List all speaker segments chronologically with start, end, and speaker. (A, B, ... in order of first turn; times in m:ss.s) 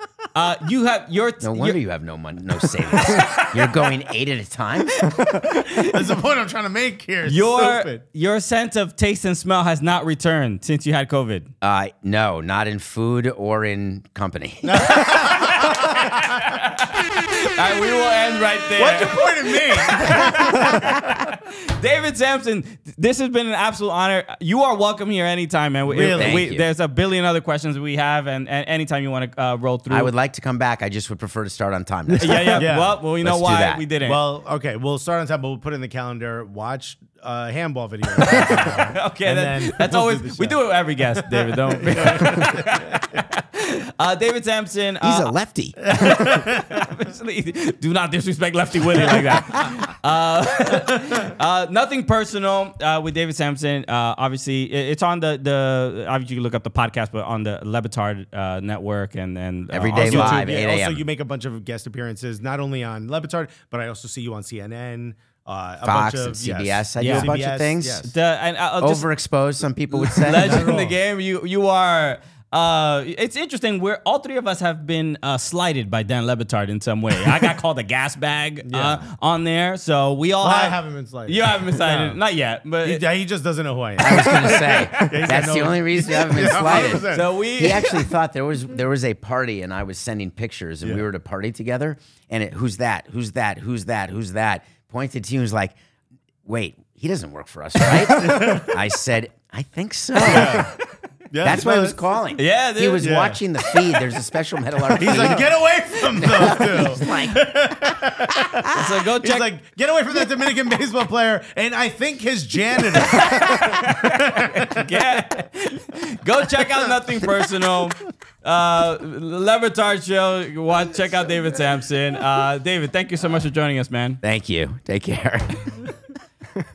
0:00.3-0:01.8 A
0:01.4-0:05.1 B
0:03.0-0:03.5 A
0:05.1-0:05.9 A
0:05.4-0:08.0 C
0:07.2-0:11.5 A
0:11.6-0:15.1 B
0:14.6-0:16.3 C
0:15.2-0:30.1 A
0:18.8-0:21.1 C
0:25.8-0:26.4 C
0:26.0-0:26.7 B
0:29.9-0:32.7 B
0:32.2-0:34.2 A
0:32.5-0:33.0 C
0:33.2-0:33.8 B
0:34.0-0:43.0 C
0:38.2-0:45.3 A
0:45.0-0:45.8 B
0:45.9-1:00.5 A
0:45.9-0:46.7 C
0:59.7-1:01.0 B
0:59.9-1:08.1 C
1:05.8-1:08.1 B
1:07.0-1:07.3 A
1:08.1-1:09.0 A
1:08.8-1:10.7 B
1:09.9-1:23.0 A
1:10.4-1:11.0 C
1:18.6-1:19.0 C
1:20.4-1:22.2 C
1:22.8-1:27.3 C
1:24.0-1:35.7 B
1:26.6-1:27.9 A
1:36.4-1:40.7 B
1:38.0-1:38.8 C
1:40.2-1:40.8 A
1:40.2-1:40.7 C
1:41.3-1:42.0 C
1:41.4-1:45.5 B
1:42.4-1:43.0 A
1:43.0-1:43.4 C
1:44.9-1:54.8 C
1:46.2-1:48.7 B
1:48.7-1:49.5 A
1:53.1-2:04.2 A
2:04.2-2:05.9 B